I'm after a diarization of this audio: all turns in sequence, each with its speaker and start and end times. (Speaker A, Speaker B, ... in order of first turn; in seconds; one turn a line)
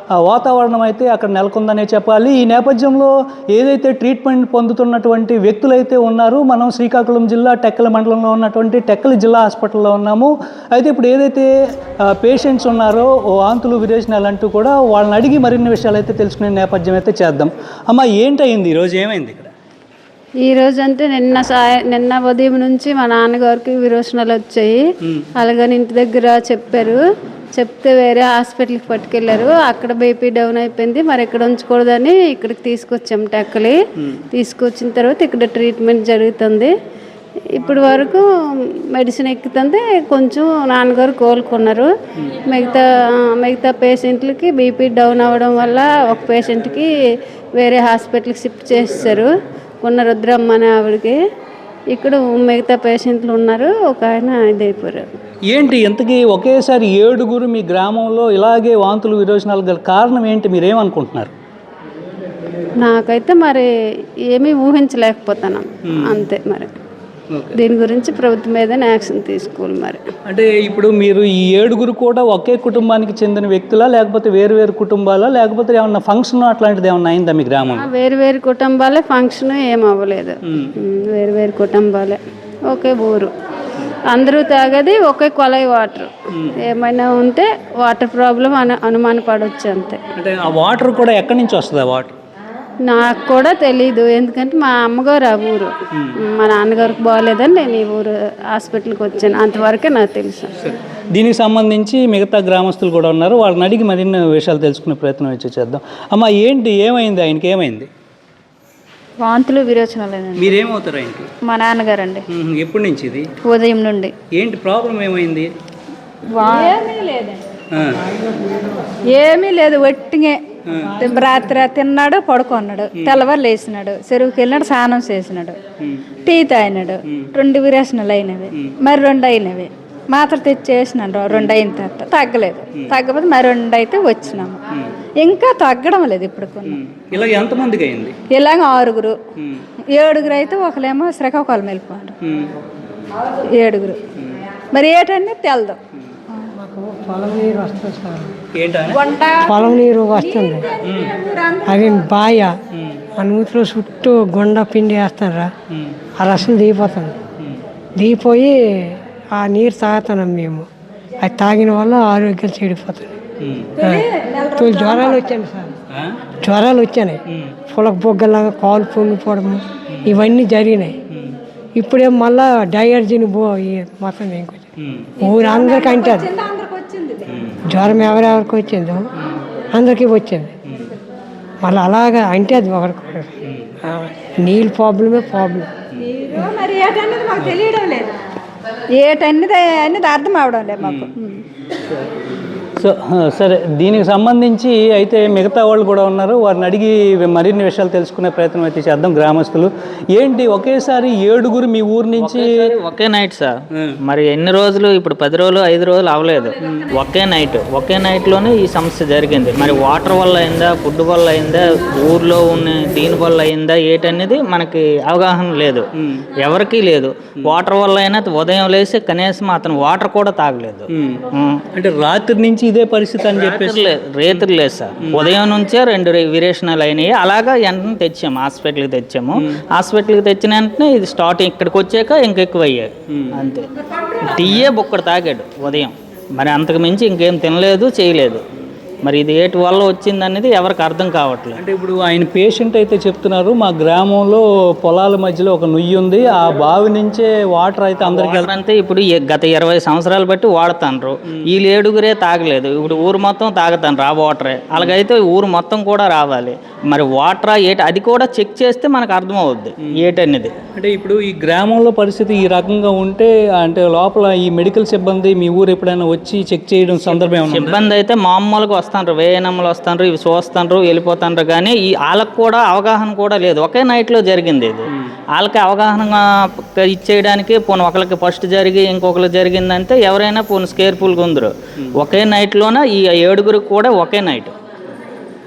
Speaker A: 0.2-11.5
Speaker A: 12.1-19.5
Speaker B: 20.4-24.9
Speaker B: 25.4-27.0
Speaker B: 27.6-33.8
Speaker B: 34.3-36.7
Speaker B: 37.5-41.9
Speaker B: 42.5-46.9
Speaker B: 47.6-51.2
Speaker B: 51.9-55.1
Speaker A: 55.5-61.3
Speaker B: 62.8-63.7
Speaker B: 64.3-66.7
Speaker A: 65.9-66.2
Speaker A: 67.3-67.6
Speaker B: 67.5-70.0
Speaker A: 70.3-77.9
Speaker B: 77.8-83.3
Speaker B: 84.1-90.0
Speaker A: 90.2-92.2
Speaker B: 92.8-100.5
Speaker A: 100.7-107.9
Speaker C: 109.2-110.6
Speaker A: 110.4-111.3
Speaker C: 111.4-112.2
Speaker A: 112.3-113.3
Speaker C: 113.4-114.1
Speaker A: 114.3-115.5
Speaker C: 116.3-117.5
Speaker A: 117.7-118.0
Speaker C: 119.0-120.4
Speaker A: 120.7-121.0
Speaker C: 121.0-125.6
Speaker A: 122.9-123.2
Speaker C: 126.1-134.6
Speaker C: 135.2-136.8
Speaker A: 136.7-138.2
Speaker C: 138.3-139.2
Speaker A: 139.4-139.6
Speaker C: 139.9-142.2
Speaker A: 142.2-142.5
Speaker C: 143.4-144.0
Speaker C: 144.7-145.8
Speaker D: 146.4-148.3
Speaker A: 148.6-149.0
Speaker C: 148.9-151.9
Speaker D: 149.4-150.7
Speaker A: 150.8-151.2
Speaker D: 151.6-152.5
Speaker D: 153.1-155.5
Speaker D: 156.2-157.2
Speaker D: 158.0-160.7
Speaker D: 161.2-163.2
Speaker A: 163.4-163.8
Speaker C: 163.8-165.2
Speaker D: 163.8-165.7
Speaker A: 165.9-166.2
Speaker D: 166.4-171.0
Speaker D: 171.8-174.7
Speaker A: 174.8-175.2
Speaker D: 175.2-176.3
Speaker C: 175.2-177.3
Speaker A: 177.3-177.6
Speaker D: 177.7-179.0
Speaker D: 179.8-180.5
Speaker D: 181.6-185.7
Speaker C: 186.0-188.1
Speaker C: 189.0-191.4
Speaker A: 190.8-191.1
Speaker A: 192.8-202.6
Speaker E: 202.2-221.6
Speaker A: 220.9-224.4
Speaker E: 223.3-233.7
Speaker E: 234.2-238.4
Speaker E: 239.1-241.6
Speaker A: 241.6-248.5
Speaker E: 248.0-260.6
Speaker A: 260.7-267.8
Speaker E: 267.0-276.2
Speaker E: 276.8-284.5